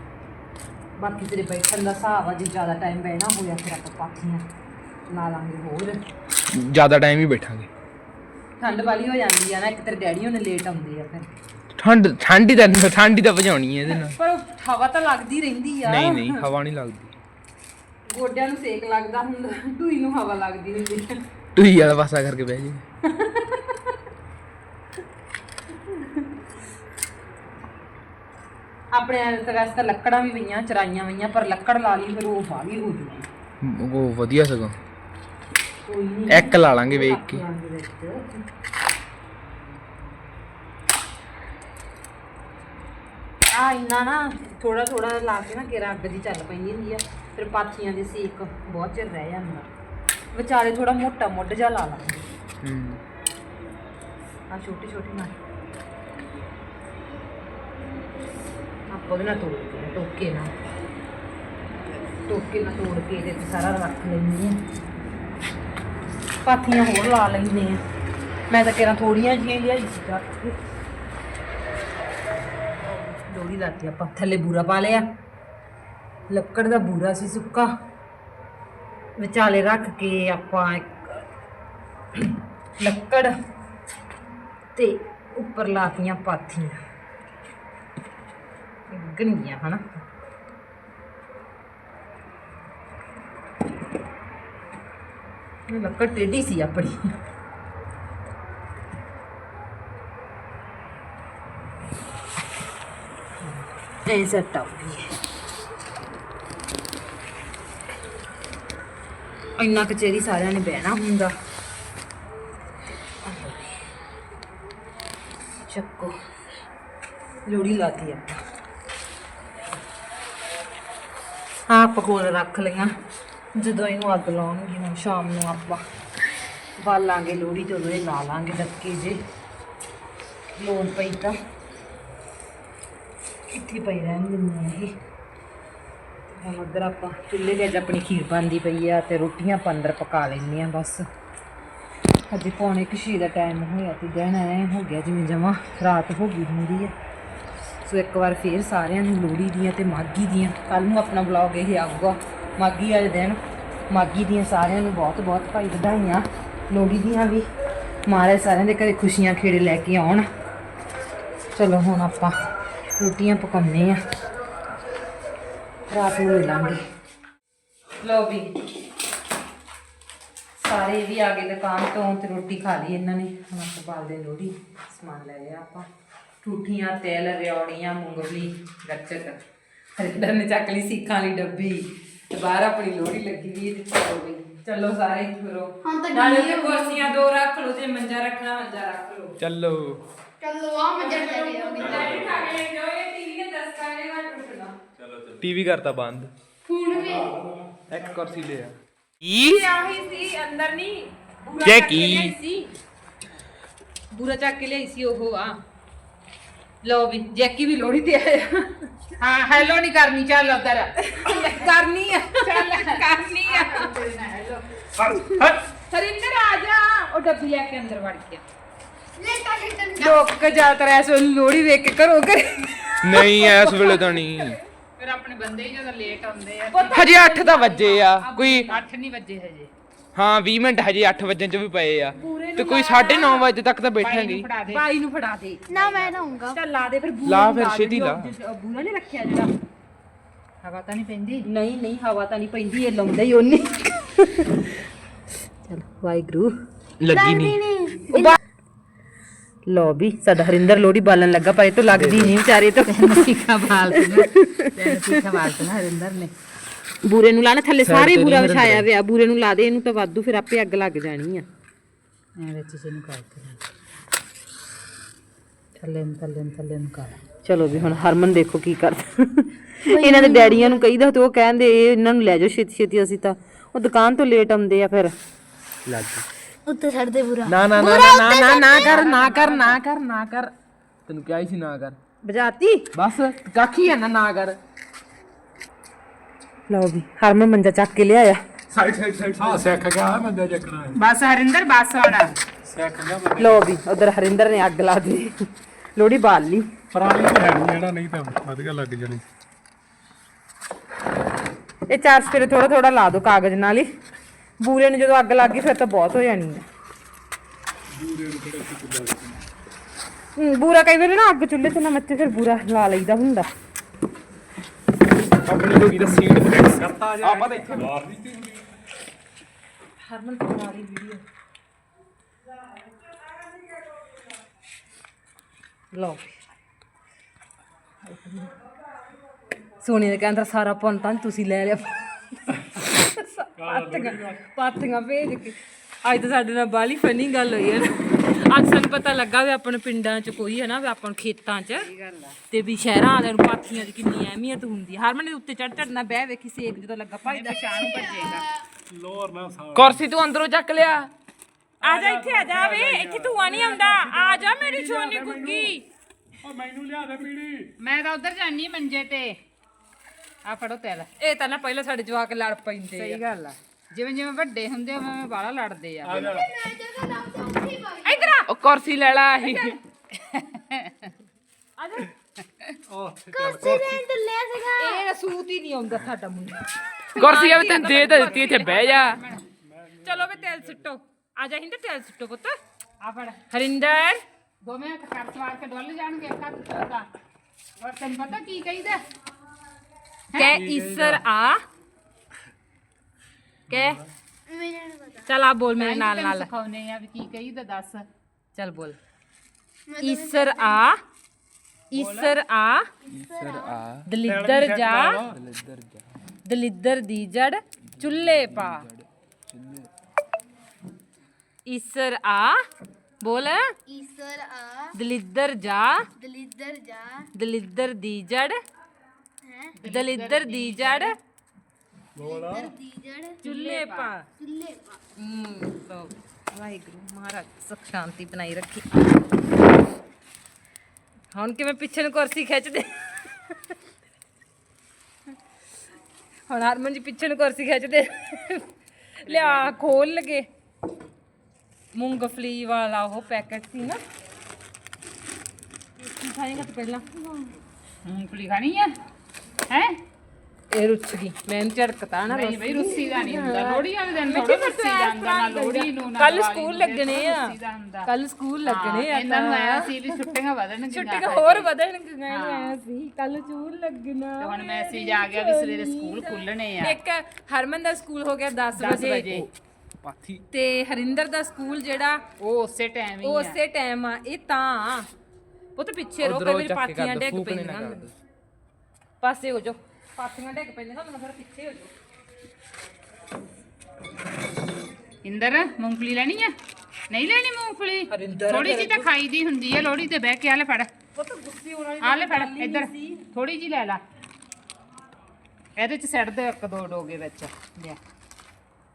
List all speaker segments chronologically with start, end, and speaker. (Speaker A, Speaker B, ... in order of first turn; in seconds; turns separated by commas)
Speaker A: 1.0-4.4, Speaker A: 5.1-6.0, Speaker B: 6.5-7.7, Speaker A: 8.6-11.3, Speaker B: 11.8-14.2, Speaker A: 13.9-16.4, Speaker B: 15.8-17.2, Speaker A: 18.1-21.1, Speaker B: 21.6-22.8, Speaker A: 23.1-23.8, Speaker A: 28.9-33.3, Speaker B: 33.6-34.8, Speaker A: 35.9-38.4, Speaker B: 36.3-37.4, Speaker A: 43.5-49.7, Speaker A: 50.3-52.2, Speaker B: 52.6-53.0, Speaker A: 54.5-55.3, Speaker A: 58.9-60.5, Speaker A: 62.3-64.5, Speaker A: 66.4-67.8, Speaker A: 68.5-70.6, Speaker A: 72.8-75.0, Speaker A: 76.3-77.7, Speaker A: 79.2-81.2, Speaker A: 82.8-83.3, Speaker A: 84.7-86.8, Speaker A: 88.9-89.8, Speaker A: 95.7-97.1, Speaker A: 103.4-105.1, Speaker A: 109.6-111.3, Speaker A: 113.2-113.8, Speaker A: 115.5-116.1, Speaker A: 117.5-118.4, Speaker A: 121.7-122.9, Speaker A: 123.5-125.8, Speaker A: 126.8-129.2, Speaker A: 130.5-131.3, Speaker A: 133.5-135.0, Speaker A: 136.3-141.0, Speaker A: 142.3-146.9, Speaker A: 147.8-153.4, Speaker A: 153.9-157.4, Speaker A: 158.1-160.2, Speaker A: 161.5-162.3, Speaker A: 163.0-164.0, Speaker A: 165.9-166.8, Speaker A: 168.0-168.5, Speaker A: 170.6-175.9, Speaker A: 176.4-179.4, Speaker A: 180.0-189.3, Speaker C: 185.8-187.1, Speaker B: 189.4-190.0, Speaker C: 190.4-192.3, Speaker A: 190.9-194.7, Speaker B: 195.4-196.3, Speaker C: 196.7-197.3, Speaker A: 196.9-197.1, Speaker D: 197.1-197.7, Speaker B: 197.9-199.6, Speaker A: 199.3-202.7, Speaker B: 201.6-202.3, Speaker A: 204.1-205.5, Speaker A: 206.8-208.9, Speaker E: 209.2-211.7, Speaker A: 211.0-213.9, Speaker E: 212.4-215.5, Speaker A: 215.0-218.4, Speaker C: 219.2-220.2, Speaker A: 219.9-224.6, Speaker B: 223.0-224.6, Speaker E: 225.0-227.2, Speaker A: 226.7-228.8, Speaker B: 226.9-228.7, Speaker E: 228.7-229.7, Speaker B: 230.1-234.5, Speaker A: 232.2-233.5, Speaker E: 234.0-234.8, Speaker A: 234.7-235.6, Speaker C: 235.7-236.6, Speaker E: 235.7-236.3, Speaker A: 236.5-239.5, Speaker B: 237.2-238.3, Speaker E: 240.6-241.4, Speaker A: 241.4-244.6, Speaker A: 245.6-246.5, Speaker B: 247.0-247.6, Speaker C: 247.1-248.3, Speaker A: 248.1-248.4, Speaker A: 249.7-253.2, Speaker B: 251.9-252.3, Speaker E: 252.9-256.3, Speaker A: 254.2-254.7, Speaker A: 257.0-261.4, Speaker B: 257.8-258.9, Speaker E: 262.4-263.6, Speaker E: 265.8-267.2, Speaker A: 267.4-275.1, Speaker C: 269.9-270.8, Speaker B: 275.9-276.2, Speaker C: 276.7-279.1, Speaker B: 277.4-280.5, Speaker E: 278.8-279.6, Speaker B: 281.1-282.0, Speaker A: 282.2-282.9, Speaker B: 282.9-284.6, Speaker A: 286.7-288.4, Speaker B: 288.8-289.7, Speaker D: 288.9-291.0, Speaker E: 290.9-292.4, Speaker D: 292.6-293.7, Speaker A: 293.4-295.4, Speaker A: 295.9-296.7, Speaker D: 296.9-299.2, Speaker A: 301.9-303.9, Speaker A: 304.6-306.6, Speaker D: 307.9-309.4, Speaker A: 310.4-313.5, Speaker B: 315.4-317.8, Speaker D: 316.8-318.6, Speaker A: 320.0-321.2, Speaker A: 325.9-326.4, Speaker A: 328.0-328.5, Speaker A: 329.8-332.0, Speaker A: 332.8-341.9, Speaker D: 333.6-334.4, Speaker E: 341.7-342.4, Speaker A: 342.5-348.1, Speaker E: 347.3-348.5, Speaker D: 348.9-350.0, Speaker B: 349.8-351.1, Speaker A: 351.8-355.8, Speaker D: 351.8-355.8, Speaker D: 356.4-357.7, Speaker E: 357.8-359.4, Speaker E: 360.4-361.1, Speaker A: 361.2-363.2, Speaker E: 362.9-366.4, Speaker D: 366.0-366.5, Speaker C: 366.2-368.4, Speaker A: 368.0-368.5, Speaker B: 368.5-369.7, Speaker A: 369.4-369.7, Speaker E: 370.4-371.1, Speaker A: 371.8-372.1, Speaker D: 372.9-373.8, Speaker C: 373.3-375.0, Speaker A: 374.6-378.9, Speaker B: 377.1-379.2, Speaker E: 378.2-379.4, Speaker D: 379.7-380.9, Speaker A: 380.0-382.5, Speaker E: 383.0-383.4, Speaker A: 383.5-384.2, Speaker E: 384.6-387.1, Speaker E: 387.8-389.0, Speaker A: 390.3-391.6, Speaker D: 390.5-391.2, Speaker A: 393.7-394.0, Speaker C: 394.5-395.3, Speaker A: 395.2-396.5, Speaker E: 395.8-398.1, Speaker A: 398.6-399.0, Speaker C: 399.9-400.9, Speaker A: 400.0-401.0, Speaker A: 401.9-402.9, Speaker E: 401.9-402.3, Speaker B: 403.1-404.1, Speaker C: 403.1-403.8, Speaker A: 404.1-405.2, Speaker D: 404.2-405.3, Speaker B: 405.2-406.0, Speaker A: 406.4-408.9, Speaker B: 407.9-409.9, Speaker A: 411.6-412.6, Speaker A: 413.2-413.7, Speaker C: 413.9-414.9, Speaker A: 414.9-416.1, Speaker C: 416.1-417.3, Speaker A: 417.3-418.6, Speaker C: 419.4-419.8, Speaker E: 419.8-421.1, Speaker A: 419.9-421.1, Speaker D: 422.2-422.7, Speaker C: 422.2-423.4, Speaker A: 423.4-424.3, Speaker E: 423.4-424.1, Speaker C: 424.4-425.0, Speaker A: 425.1-428.9, Speaker A: 431.3-433.5, Speaker A: 436.5-438.6, Speaker A: 439.2-440.4, Speaker E: 439.3-439.8, Speaker A: 441.9-444.0, Speaker A: 446.0-447.1, Speaker E: 448.0-448.9, Speaker A: 450.7-460.3, Speaker E: 452.3-458.1, Speaker E: 458.6-461.7, Speaker A: 460.9-469.4, Speaker E: 462.3-462.8, Speaker E: 464.4-467.0, Speaker E: 468.8-469.5, Speaker B: 470.0-470.4, Speaker A: 470.5-472.2, Speaker E: 472.4-473.6, Speaker A: 473.2-475.1, Speaker A: 475.8-478.1, Speaker B: 476.2-478.1, Speaker A: 479.2-481.9, Speaker E: 485.2-486.5, Speaker E: 487.1-490.9, Speaker A: 488.1-489.1, Speaker A: 491.1-493.2, Speaker E: 492.0-494.0, Speaker E: 495.8-498.0